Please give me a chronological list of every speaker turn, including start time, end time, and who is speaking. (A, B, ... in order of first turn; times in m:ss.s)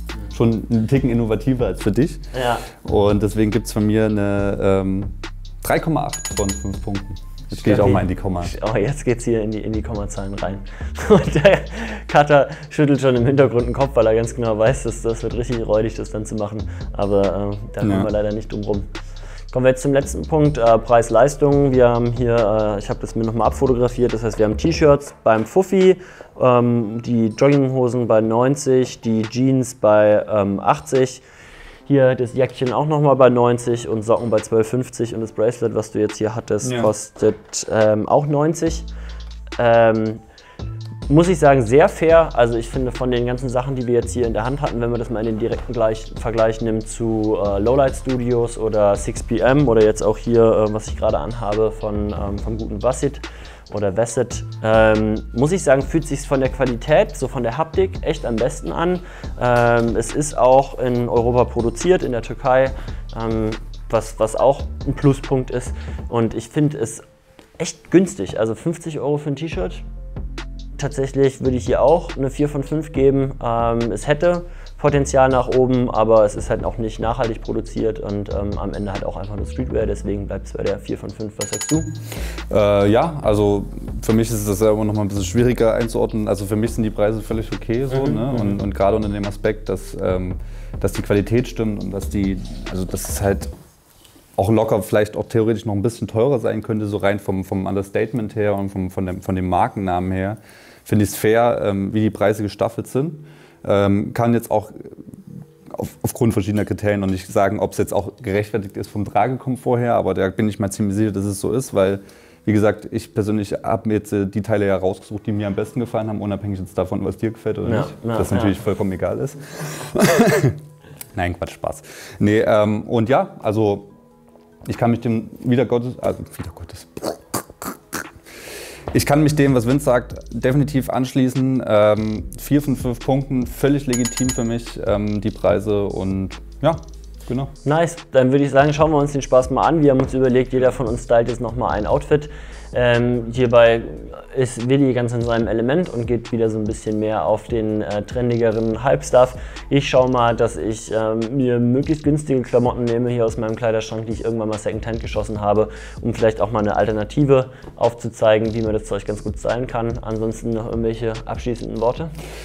0:00.3-0:02.2 A
0:02.3-0:02.6 B
0:02.8-0:08.5 A
0:07.5-0:18.9 B
0:17.8-0:18.1 A
0:19.5-0:31.2 B
0:31.9-0:38.8 B
0:36.6-0:36.9 A
0:39.6-0:40.2 B
0:41.1-1:07.0 B
1:07.6-1:09.8 B
1:10.8-1:21.9 B
1:22.5-1:33.5 A
1:27.9-1:28.6 B
1:34.4-1:45.0 A
1:45.7-2:00.6 A
1:57.6-1:58.6 B
2:01.1-2:03.9 A
2:04.6-2:07.7 A
2:08.9-2:17.5 A
2:17.6-2:42.1 B